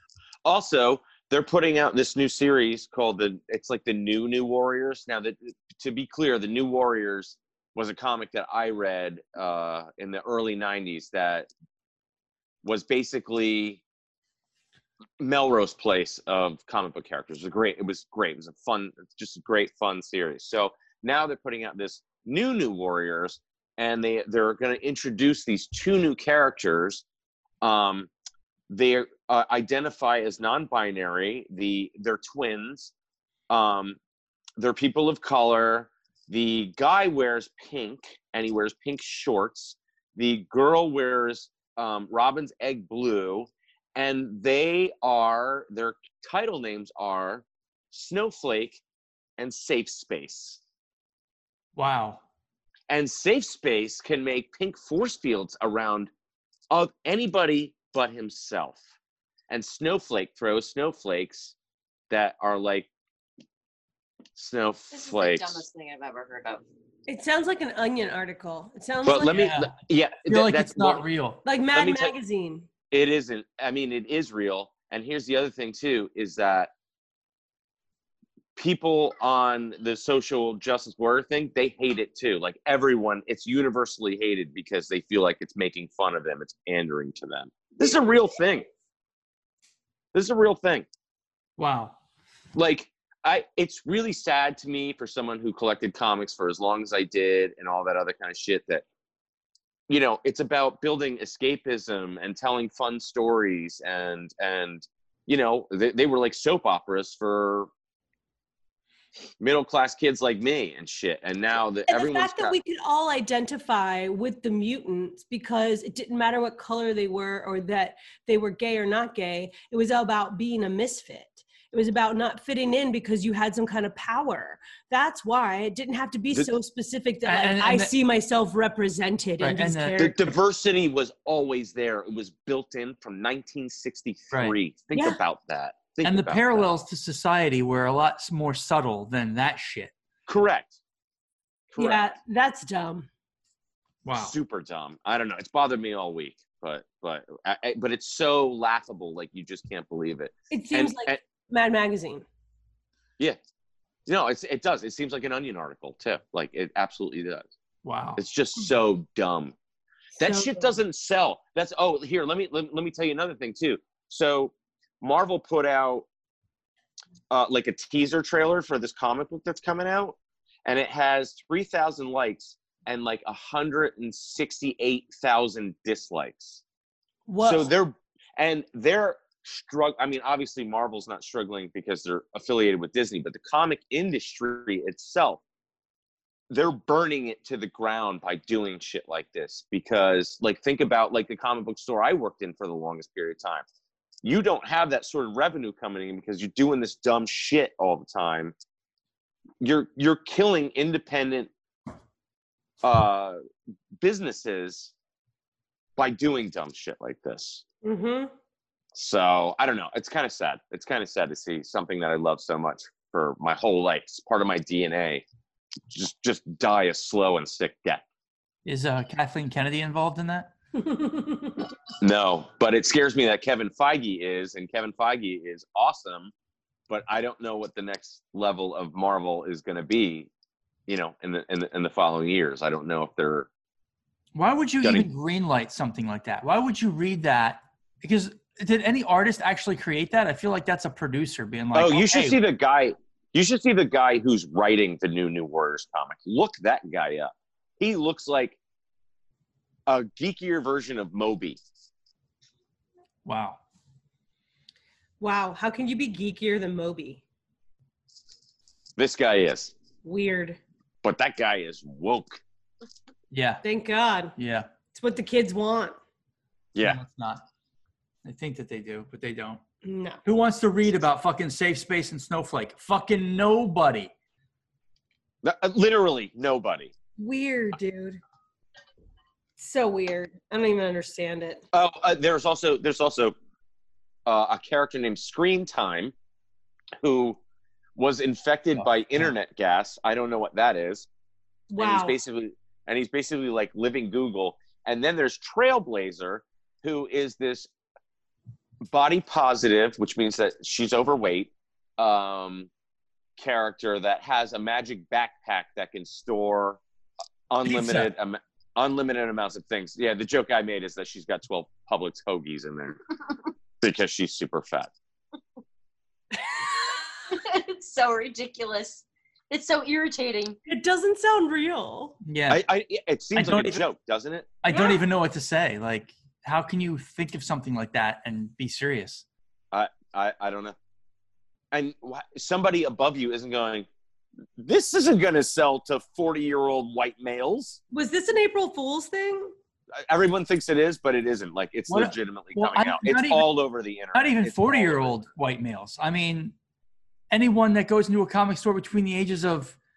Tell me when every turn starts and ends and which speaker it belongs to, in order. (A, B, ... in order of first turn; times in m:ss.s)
0:00.4-0:11.5 A
0:12.6-0:13.8 A
0:15.2-0:27.0 A
0:27.6-0:28.1 A
0:28.7-0:32.9 A
0:33.5-0:34.0 A
0:34.6-0:48.8 A
0:49.4-0:50.6 A
0:51.8-0:52.2 B
0:52.9-0:56.1 A
0:56.7-0:58.8 A
0:59.5-1:01.5 A
1:02.1-1:02.9 A
1:04.4-1:05.6 A
1:04.9-1:06.6 C
1:07.1-1:09.4 D
1:09.0-1:11.0 A
1:09.2-1:09.7 B
1:10.3-1:11.4 B
1:11.4-1:12.7 D
1:11.7-1:12.2 A
1:12.9-1:16.7 A
1:18.6-1:28.7 A
1:30.1-1:30.9 A
1:31.6-1:32.0 B
1:32.6-1:38.8 A
1:39.9-1:47.7 A
1:49.4-1:52.6 A
1:51.9-2:10.3 D
2:07.2-2:07.9 B
2:09.4-2:10.1 B
2:10.0-2:16.7 A
2:14.9-2:15.2 D
2:16.0-2:19.9 B
2:20.3-2:20.8 A
2:21.7-2:22.1 A
2:21.8-2:23.1 D
2:24.0-2:24.4 B
2:24.1-2:31.2 A
2:30.5-2:32.3 D
2:34.1-2:37.5 A
2:37.8-2:38.2 B
2:38.2-2:39.6 A
2:40.2-2:40.7 D
2:40.2-2:46.1 A
2:47.3-2:56.6 A
2:57.3-2:57.7 D
2:57.4-3:05.4 A
3:06.5-3:13.6 A
3:14.2-3:18.5 A
3:19.6-3:21.5 A
3:22.8-3:23.4 A
3:24.0-3:24.9 A
3:26.0-3:27.6 A
3:27.8-3:28.3 D
3:28.9-3:35.2 A
3:35.9-3:38.0 A
3:38.7-3:40.5 B
3:40.8-3:41.7 D
3:42.0-3:46.3 A
3:46.9-3:50.3 A
3:50.9-3:53.5 A
3:54.3-4:02.4 B
3:54.8-3:55.1 A
4:01.7-4:08.6 A
4:09.9-4:11.6 A
4:13.2-4:13.6 B
4:15.2-4:17.2 D
4:19.0-4:19.7 A
4:20.0-4:20.6 D
4:21.0-4:22.4 A
4:23.3-4:23.6 B
4:23.6-4:24.4 D
4:24.4-4:24.7 B
4:24.9-4:26.0 D
4:26.8-4:27.0 A
4:26.8-4:27.4 B
4:28.2-4:29.6 B
4:29.8-4:30.2 D
4:30.2-4:34.1 B
4:35.4-4:36.9 A
4:37.2-4:38.2 D
4:39.6-4:41.6 D
4:41.7-4:43.4 A
4:44.3-4:46.1 A
4:47.0-4:47.4 A
4:48.0-4:51.1 A
4:51.7-4:52.2 D
4:51.8-4:57.7 A
4:58.8-5:02.7 A
5:03.4-5:06.8 A
5:07.5-5:13.0 A
5:07.6-5:08.1 B
5:13.8-5:14.9 A
5:17.3-5:20.6 C
5:20.7-5:22.2 D
5:22.2-5:22.6 B
5:22.5-5:24.5 A
5:23.4-5:23.8 B
5:24.6-5:29.2 B
5:29.7-5:30.8 A
5:31.7-5:33.9 A
5:34.6-5:37.8 A
5:37.9-5:39.5 D
5:40.0-5:45.1 A
5:41.9-5:43.5 B
5:44.1-5:46.6 B
5:47.3-5:49.8 B